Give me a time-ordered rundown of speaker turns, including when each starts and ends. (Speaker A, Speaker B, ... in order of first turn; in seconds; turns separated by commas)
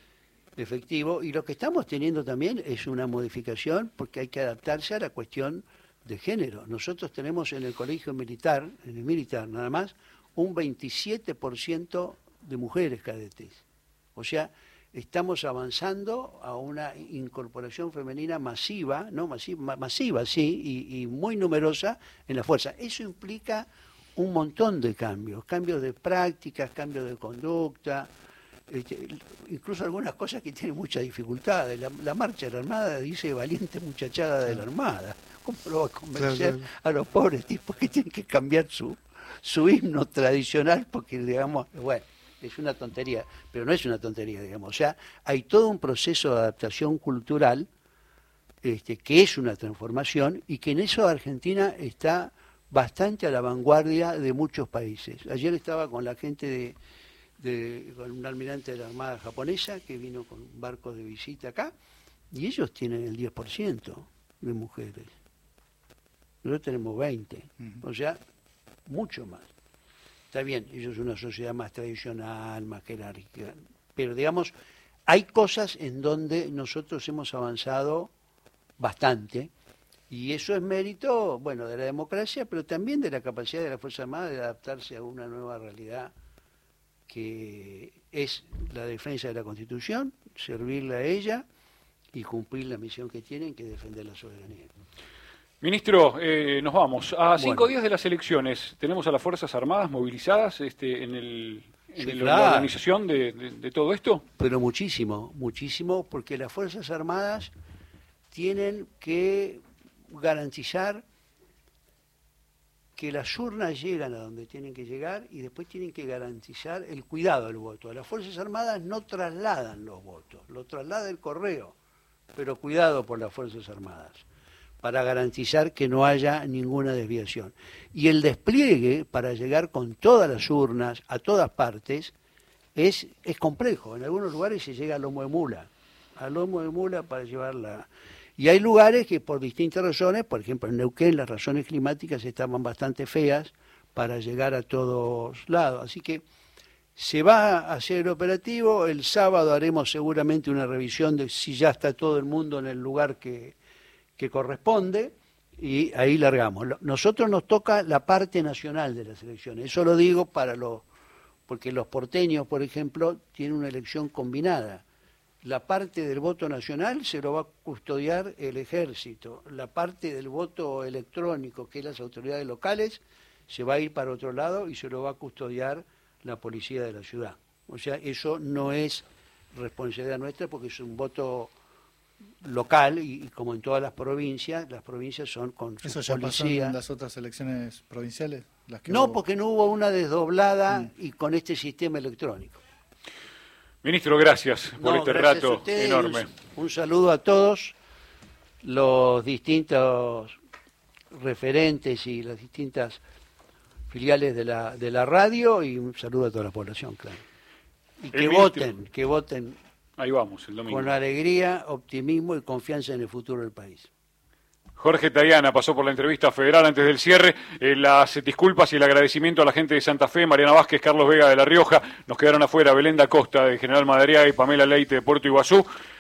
Speaker A: 0.6-13.6, Speaker A: 14.2-28.1, Speaker A: 28.7-47.7, Speaker B: 36.3-36.6, Speaker A: 48.6-56.8, Speaker A: 57.4-61.7, Speaker A: 62.3-65.1, Speaker A: 66.4-68.2, Speaker A: 68.9-69.5, Speaker A: 70.3-74.5, Speaker A: 75.1-78.1, Speaker A: 78.8-79.5, Speaker A: 80.1-86.1, Speaker A: 87.1-91.5, Speaker A: 92.1-94.7, Speaker C: 95.6-104.2, Speaker A: 97.4-97.7, Speaker A: 102.0-102.8, Speaker A: 104.4-107.5, Speaker A: 108.3-111.0, Speaker A: 113.0-121.8, Speaker A: 122.3-124.2, Speaker A: 124.8-132.1, Speaker A: 132.8-146.2, Speaker A: 146.9-153.6, Speaker A: 154.2-160.9, Speaker A: 161.5-164.8, Speaker A: 165.4-181.5, Speaker A: 182.4-186.8, Speaker B: 185.8-189.2, Speaker A: 188.9-192.6, Speaker C: 193.8-196.3, Speaker A: 194.8-197.8, Speaker A: 198.6-200.4, Speaker A: 201.1-203.0, Speaker A: 203.9-207.2, Speaker A: 208.0-209.6, Speaker C: 208.1-208.7, Speaker C: 210.0-210.9, Speaker A: 210.7-213.9, Speaker C: 214.8-225.7